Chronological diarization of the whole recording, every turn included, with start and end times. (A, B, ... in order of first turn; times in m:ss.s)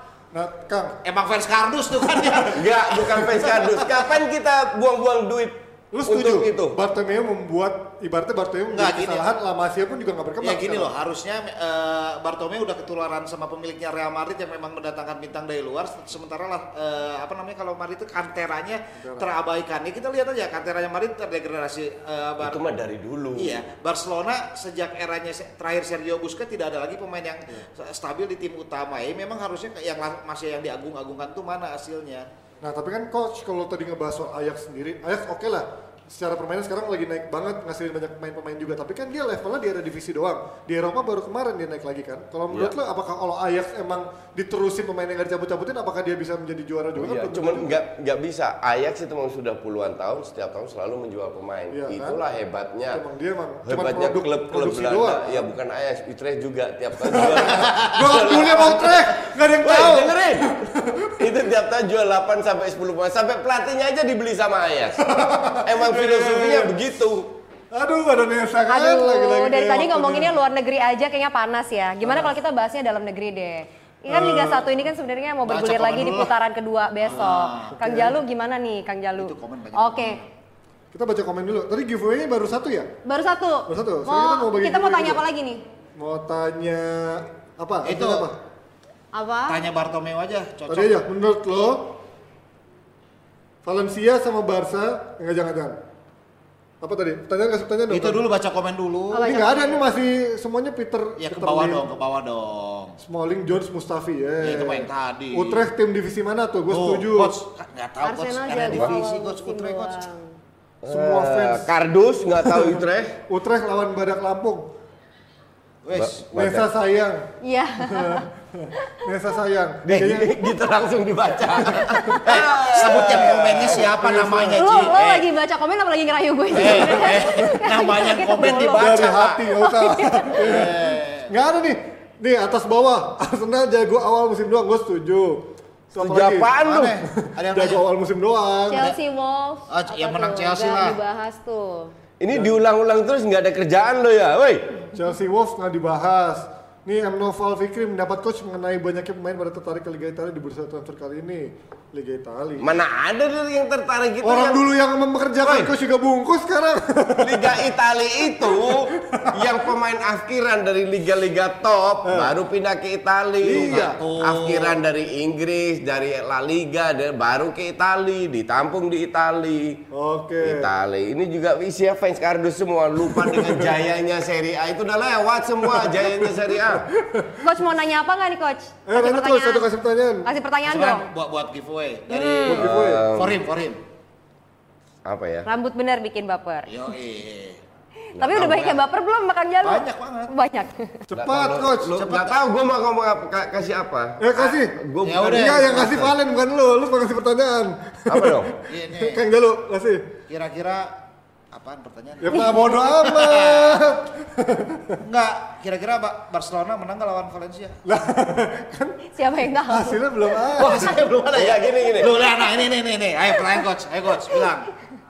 0:00.3-0:01.0 A
0:01.0-0:02.8 B
0:02.5-0:06.8 C
0:05.9-0:10.9 A
0:08.7-0:09.3 B
0:10.4-0:22.6 B
0:19.0-0:19.3 A
0:22.4-0:23.6 C
0:23.3-0:32.3 B
0:32.6-0:47.8 A
0:47.0-0:53.0 C
0:51.7-0:52.2 A
0:52.9-0:55.5 A
0:53.6-1:00.5 C
0:57.1-1:01.3 A
1:01.2-1:07.3 C
1:05.0-1:06.8 A
1:07.7-1:10.3 A
1:08.7-1:20.2 D
1:12.0-1:12.3 A
1:14.1-1:14.7 A
1:15.4-1:16.3 B
1:17.0-1:17.8 B
1:17.8-1:18.2 A
1:19.2-1:20.3 B
1:20.9-1:22.9 A
1:23.0-1:25.6 D
1:23.7-1:25.2 A
1:26.0-1:28.4 A
1:27.8-1:28.3 B
1:29.1-1:29.6 D
1:29.5-1:31.0 B
1:30.7-1:32.0 A
1:33.6-1:35.8 A
1:36.8-1:38.2 A
1:37.9-1:39.3 B
1:39.1-1:39.8 D
1:39.2-1:41.8 A
1:41.2-1:43.0 B
1:43.0-1:47.4 A
1:44.4-1:45.6 B
1:46.7-1:50.0 B
1:48.0-1:50.3 D
1:50.8-1:53.2 C
1:50.9-1:51.7 A
1:52.4-1:54.7 A
1:55.8-1:56.6 B
1:55.9-1:56.6 C
1:56.3-1:57.3 A
1:57.4-1:59.0 D
1:57.8-2:00.5 A
1:59.8-2:03.9 C
2:01.8-2:02.4 A
2:02.2-2:05.2 B
2:02.9-2:04.7 A
2:04.5-2:08.9 D
2:06.5-2:09.5 B
2:08.7-2:18.8 A
2:09.6-2:10.4 D
2:10.3-2:11.3 B
2:16.0-2:17.0 C
2:16.6-2:17.8 B
2:18.7-2:21.9 D
2:19.7-2:21.0 B
2:22.2-2:24.8 C
2:24.9-2:32.7 A
2:32.6-2:34.6 C
2:34.2-2:37.6 A
2:35.4-2:35.7 C
2:37.2-2:49.8 C
2:38.4-2:39.6 A
2:42.0-2:42.3 A
2:43.4-2:44.0 A
2:43.6-2:44.8 B
2:49.9-2:50.7 A
2:50.4-2:56.9 C
2:53.1-2:53.7 A
2:55.8-2:56.3 A
2:56.9-2:57.5 A
2:57.4-2:59.7 D
2:58.9-3:00.3 A
3:00.2-3:01.1 D
3:00.6-3:03.8 B
3:02.1-3:02.6 D
3:02.4-3:03.0 A
3:02.5-3:03.4 C
3:05.0-3:05.5 C
3:05.4-3:06.7 D
3:06.7-3:07.6 B
3:08.1-3:11.0 D
3:08.2-3:08.8 C
3:09.6-3:10.3 B
3:11.1-3:12.3 A
3:11.1-3:16.1 C
3:12.0-3:12.3 B
3:14.2-3:20.1 A
3:14.4-3:16.1 B
3:18.1-3:18.5 C
3:18.7-3:19.2 B
3:20.3-3:20.9 B
3:21.5-3:24.0 B
3:22.2-3:25.0 A
3:25.0-3:27.8 B
3:27.8-3:29.0 A
3:29.1-3:30.0 D
3:29.6-3:31.0 A
3:30.5-3:34.7 B
3:31.3-3:32.1 C